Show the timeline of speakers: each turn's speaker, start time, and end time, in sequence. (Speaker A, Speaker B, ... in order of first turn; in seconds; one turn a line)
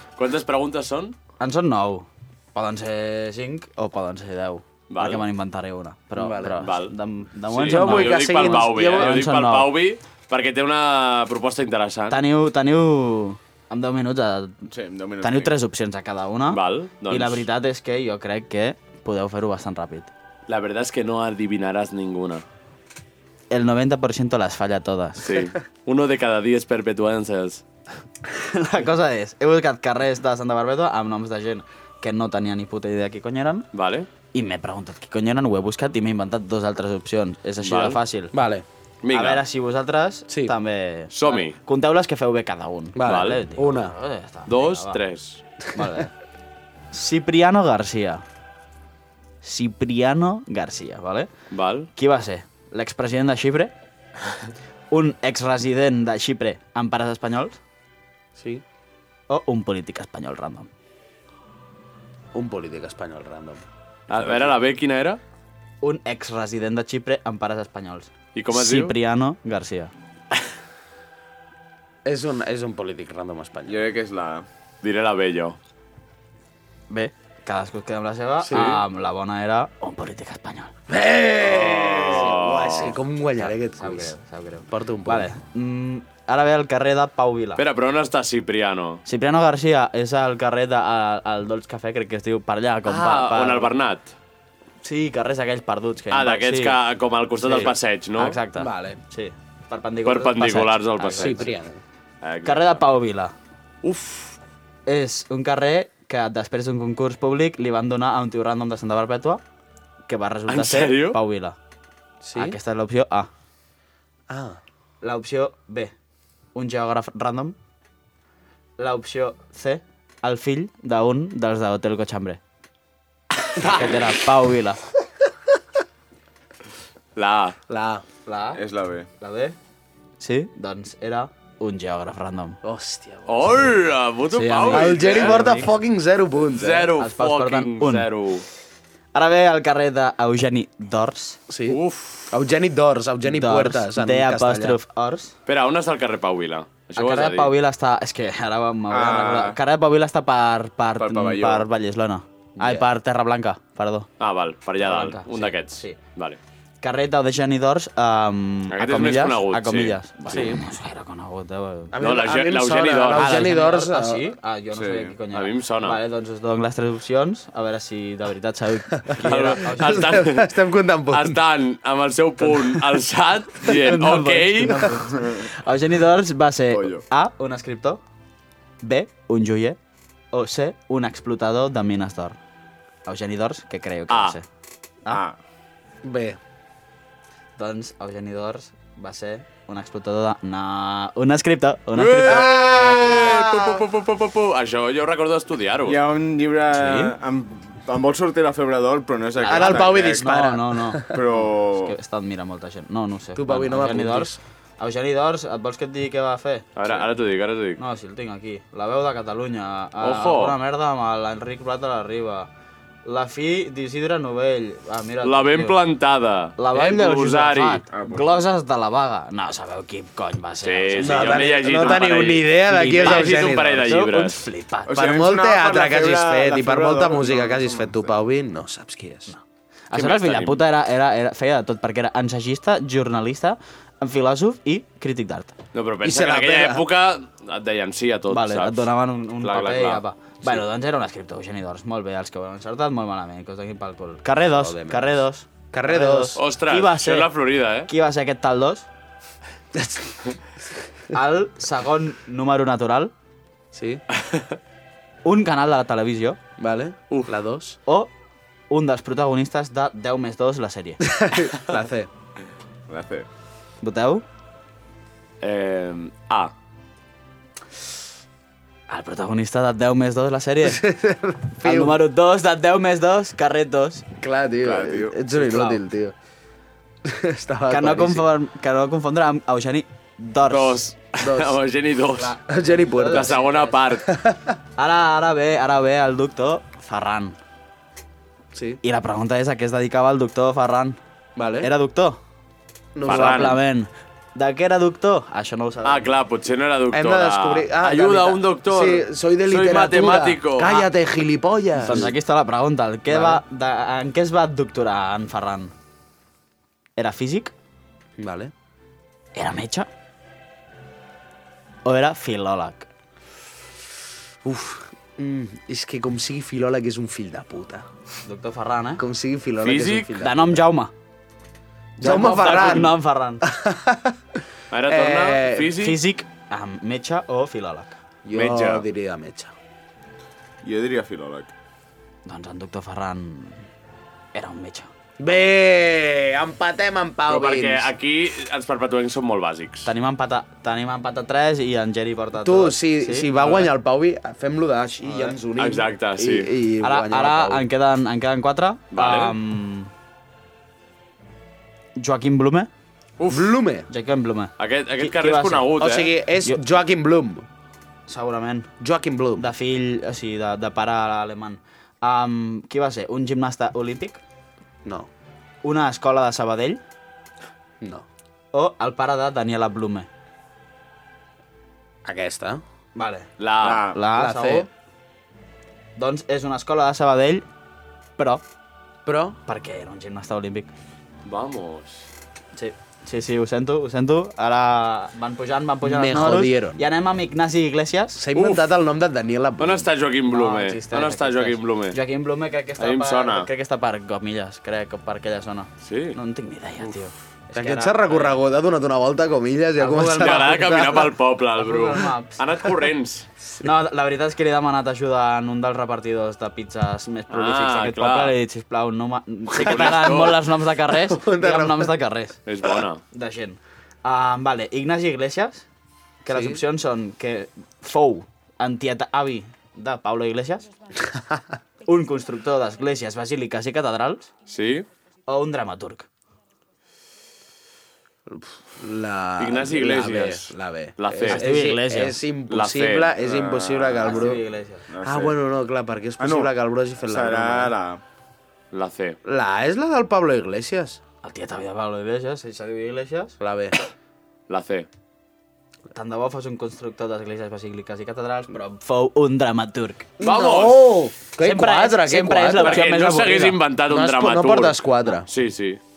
Speaker A: 0.2-1.2
Speaker B: 1.4-9.7
Speaker A: 4.9-5.2
Speaker C: 6.2-6.7
Speaker A: 6.6-6.9
Speaker A: 7.5-12.2
Speaker C: 7.6-9.1
Speaker B: 12.1-14.6
Speaker D: 14.7-15.5
Speaker B: 15.2-20.1
Speaker A: 16.5-17.4
Speaker A: 20.5-22.4
Speaker B: 23.5-25.4
Speaker A: 25.2-27.6
Speaker B: 28.4-33.7
Speaker A: 33.7-34.1
Speaker B: 34.3-38.3
Speaker A: 37.6-38.0
Speaker C: 38.3-38.6
Speaker A: 39.0-39.4
Speaker B: 39.1-45.0
Speaker C: 40.3-40.5
Speaker A: 41.1-41.6
Speaker C: 43.0-43.9
Speaker A: 43.1-43.4
Speaker A: 44.5-45.4
Speaker B: 45.7-46.1
Speaker B: 46.9-48.2
Speaker B: 49.4-51.3
Speaker A: 51.5-51.9
Speaker B: 52.0-53.7
Speaker B: 54.9-57.6
Speaker C: 58.4-58.6
Speaker B: 59.3-60.7
Speaker C: 62.3-63.6
Speaker A: 64.1-65.2
Speaker B: 65.8-69.9
Speaker A: 68.3-68.9
Speaker C: 72.0-73.9
Speaker D: 73.7-74.5
Speaker A: 74.8-75.6
Speaker B: 76.9-80.7
Speaker C: 78.4-78.7
Speaker A: 78.5-78.8
Speaker C: 80.9-84.2
Speaker A: 81.4-83.0
Speaker B: 83.4-87.6
Speaker C: 84.7-85.3
Speaker A: 87.6-89.0
Speaker B: 89.1-93.7
Speaker A: 92.9-94.1
Speaker B: 94.8-96.8
Speaker A: 96.1-98.4
Speaker B: 97.4-101.5
Speaker C: 98.6-99.0
Speaker A: 100.0-101.5
Speaker C: 101.1-101.8
Speaker A: 102.2-102.8
Speaker B: 102.5-103.3
Speaker A: 103.8-104.4
Speaker B: 104.9-109.4
Speaker B: 110.1-111.6
Speaker A: 110.5-111.2
Speaker C: 112.2-112.6
Speaker B: 112.3-113.3
Speaker C: 114.3-114.6
Speaker B: 115.0-115.9
Speaker B: 116.5-117.5
Speaker B: 118.8-122.4
Speaker B: 123.6-124.8
Speaker A: 127.2-127.6
Speaker C: 127.7-128.1
Speaker B: 128.3-128.6
Speaker D: 128.6-129.1
Speaker B: 129.2-129.6
Speaker B: 130.2-132.6
Speaker C: 132.6-133.7
Speaker A: 133.3-135.4
Speaker B: 134.3-135.7
Speaker C: 134.7-136.9
Speaker A: 136.5-138.5
Speaker B: 137.0-138.1
Speaker B: 139.1-141.4
Speaker C: 141.5-141.8
Speaker A: 141.7-142.3
Speaker C: 142.3-144.8
Speaker B: 143.2-145.3
Speaker A: 145.5-147.5
Speaker B: 147.0-154.1
Speaker D: 148.9-149.6
Speaker D: 151.0-151.7
Speaker C: 152.6-152.9
Speaker A: 154.2-156.4
Speaker B: 154.8-156.0
Speaker B: 156.8-162.0
Speaker A: 158.7-160.5
Speaker C: 160.3-160.6
Speaker C: 161.9-164.3
Speaker A: 162.0-163.6
Speaker B: 163.2-170.1
Speaker D: 164.7-165.2
Speaker A: 165.3-166.0
Speaker A: 169.2-170.5
Speaker C: 169.8-171.4
Speaker A: 171.1-174.8
Speaker C: 172.4-172.8
Speaker B: 173.6-178.0
Speaker D: 175.1-175.5
Speaker D: 176.7-177.0
Speaker B: 178.8-179.8
Speaker B: 180.3-182.4
Speaker B: 183.1-184.4
Speaker A: 184.1-184.4
Speaker D: 185.1-185.4
Speaker C: 186.0-186.4
Speaker B: 187.6-192.5
Speaker A: 192.0-196.0
Speaker C: 192.9-193.5
Speaker D: 195.8-200.3
Speaker B: 196.7-197.1
Speaker C: 199.4-201.2
Speaker B: 199.4-206.7
Speaker D: 201.1-202.0
Speaker C: 203.3-204.4
Speaker A: 206.8-207.8
Speaker B: 207.8-212.5
Speaker A: 210.0-210.6
Speaker B: 213.1-215.8
Speaker A: 215.2-217.8
Speaker B: 216.6-221.8
Speaker D: 217.9-218.3
Speaker A: 220.6-224.4
Speaker C: 220.9-223.9
Speaker B: 222.7-224.9
Speaker D: 224.9-228.1
Speaker C: 224.9-229.3
Speaker B: 229.3-235.6
Speaker A: 229.9-230.6
Speaker A: 235.7-240.0
Speaker C: 236.0-236.9
Speaker B: 238.3-247.3
Speaker C: 244.5-246.4
Speaker A: 246.4-247.9
Speaker B: 247.8-248.9
Speaker C: 249.8-250.2
Speaker B: 251.1-253.1
Speaker C: 253.7-254.0
Speaker B: 255.2-256.4
Speaker C: 256.6-257.8
Speaker B: 258.7-261.1
Speaker C: 261.1-262.1
Speaker D: 262.9-263.3
Speaker B: 263.8-264.2
Speaker A: 265.4-266.5
Speaker B: 268.9-270.9
Speaker C: 270.6-272.0
Speaker B: 271.6-274.1
Speaker C: 274.2-276.1
Speaker D: 274.6-275.2
Speaker B: 275.4-275.8
Speaker C: 277.1-278.3
Speaker B: 277.7-280.9
Speaker A: 280.4-282.4
Speaker C: 281.2-281.6
Speaker B: 282.2-283.8
Speaker C: 282.5-283.4
Speaker A: 283.1-284.1
Speaker C: 284.1-284.6
Speaker B: 284.8-287.4
Speaker C: 288.5-288.8
Speaker B: 288.8-291.0
Speaker C: 291.4-291.7
Speaker B: 291.6-292.2
Speaker C: 292.9-293.6
Speaker A: 293.1-293.6
Speaker B: 293.1-296.1
Speaker A: 295.8-300.9
Speaker C: 296.9-302.1
Speaker B: 301.8-305.7
Speaker C: 303.1-303.4
Speaker B: 307.0-307.5
Speaker C: 308.2-308.5
Speaker B: 309.4-309.9
Speaker B: 311.9-312.9
Speaker C: 314.4-317.9
Speaker B: 318.2-319.0
Speaker C: 319.0-320.6
Speaker A: 319.6-320.1
Speaker B: 320.2-320.9
Speaker C: 322.0-324.1
Speaker A: 322.0-322.9
Speaker B: 322.0-323.4
Speaker A: 324.7-326.0
Speaker C: 324.9-325.8
Speaker B: 325.8-328.0
Speaker C: 328.2-329.5
Speaker A: 328.3-328.8
Speaker D: 330.6-331.5
Speaker B: 332.2-333.6
Speaker B: 334.3-334.9
Speaker C: 335.2-337.9
Speaker A: 337.3-339.9
Speaker B: 339.9-343.6
Speaker C: 342.4-347.7
Speaker A: 345.6-346.5
Speaker B: 346.8-349.9
Speaker A: 348.9-349.4
Speaker B: 352.0-352.7
Speaker A: 353.2-353.6
Speaker C: 353.3-353.9
Speaker B: 353.9-355.7
Speaker A: 354.6-356.1
Speaker C: 355.8-357.4
Speaker B: 358.1-358.7
Speaker C: 358.8-359.5
Speaker B: 359.4-364.2
Speaker B: 365.6-366.8
Speaker C: 367.8-368.1
Speaker B: 368.5-370.1
Speaker C: 372.1-372.6
Speaker B: 372.9-373.3
Speaker A: 373.4-373.9
Speaker D: 373.6-374.0
Speaker B: 373.9-374.7
Speaker C: 374.1-374.7
Speaker B: 376.0-377.5
Speaker B: 378.2-378.4
Speaker C: 379.1-379.4
Speaker B: 379.5-380.7
Speaker A: 381.2-382.1
Speaker B: 382.6-388.2
Speaker C: 385.8-386.8
Speaker C: 388.1-389.9
Speaker A: 388.3-388.7
Speaker A: 389.6-392.0
Speaker B: 390.3-398.4
Speaker A: 392.8-393.5
Speaker A: 395.8-396.2
Speaker C: 397.6-401.1
Speaker B: 399.8-400.9
Speaker A: 400.2-403.3
Speaker B: 401.6-402.4
Speaker B: 403.6-412.4
Speaker A: 407.3-408.4
Speaker A: 409.5-410.4
Speaker C: 409.6-410.3
Speaker C: 411.1-411.9
Speaker A: 412.5-413.0
Speaker B: 413.1-415.7
Speaker B: 416.2-420.7
Speaker C: 416.3-416.6
Speaker C: 421.1-421.4
Speaker B: 421.9-424.3
Speaker A: 424.5-424.9
Speaker B: 425.3-426.1
Speaker C: 428.3-434.4
Speaker A: 429.4-431.7
Speaker B: 431.3-432.2
Speaker A: 432.5-433.1
Speaker D: 433.2-435.4
Speaker B: 434.0-434.9
Speaker C: 435.0-437.7
Speaker D: 436.2-436.5
Speaker D: 437.0-438.0
Speaker A: 438.7-439.2
Speaker C: 439.2-441.0
Speaker B: 441.2-443.4
Speaker C: 443.4-443.8
Speaker A: 444.5-444.9
Speaker B: 445.9-450.1
Speaker C: 450.2-452.9
Speaker A: 450.2-451.0
Speaker B: 451.4-453.6
Speaker A: 452.5-455.8
Speaker C: 453.9-455.3